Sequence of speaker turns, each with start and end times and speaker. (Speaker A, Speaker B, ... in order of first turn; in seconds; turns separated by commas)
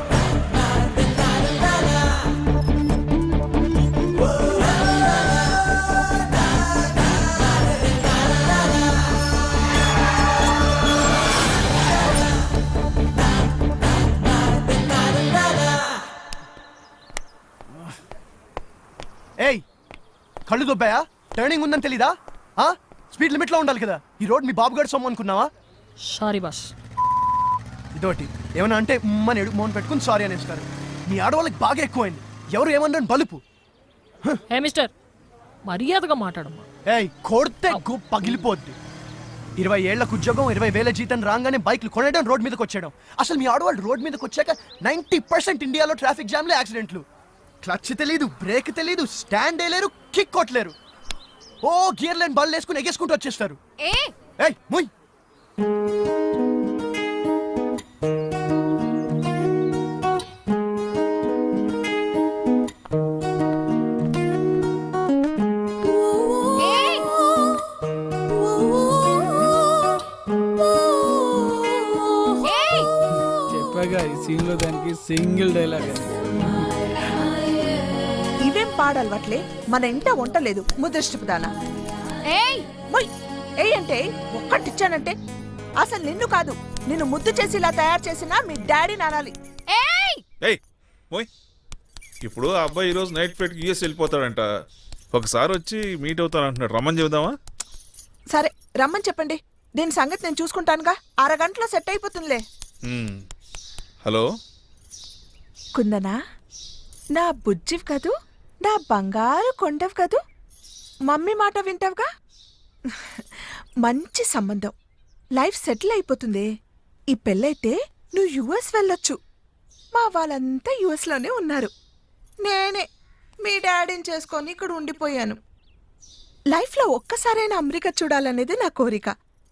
Speaker A: 20.5-25.5, Speaker B: 26.0-26.7, Speaker A: 27.9-33.4, Speaker B: 34.5-34.9, Speaker B: 35.7-36.6, Speaker A: 36.9-38.7, Speaker A: 39.6-47.0, Speaker A: 47.6-50.7, Speaker A: 51.6-53.6, Speaker C: 53.8-54.1, Speaker A: 54.4-54.9, Speaker C: 66.6-67.1, Speaker C: 72.4-72.9, Speaker D: 73.5-75.9, Speaker E: 78.5-81.5, Speaker C: 82.3-82.6, Speaker E: 82.9-85.1, Speaker E: 85.8-89.3, Speaker C: 89.7-90.2, Speaker F: 92.2-94.4, Speaker F: 95.1-97.3, Speaker E: 98.3-102.4, Speaker F: 102.8-103.2, Speaker E: 105.8-106.2, Speaker E: 107.2-110.2, Speaker E: 111.1-112.0, Speaker E: 112.9-113.3, Speaker E: 113.8-114.7, Speaker E: 115.4-116.5, Speaker E: 117.1-119.2, Speaker E: 120.0-121.7, Speaker E: 122.4-122.8, Speaker E: 123.5-125.4, Speaker E: 126.5-129.1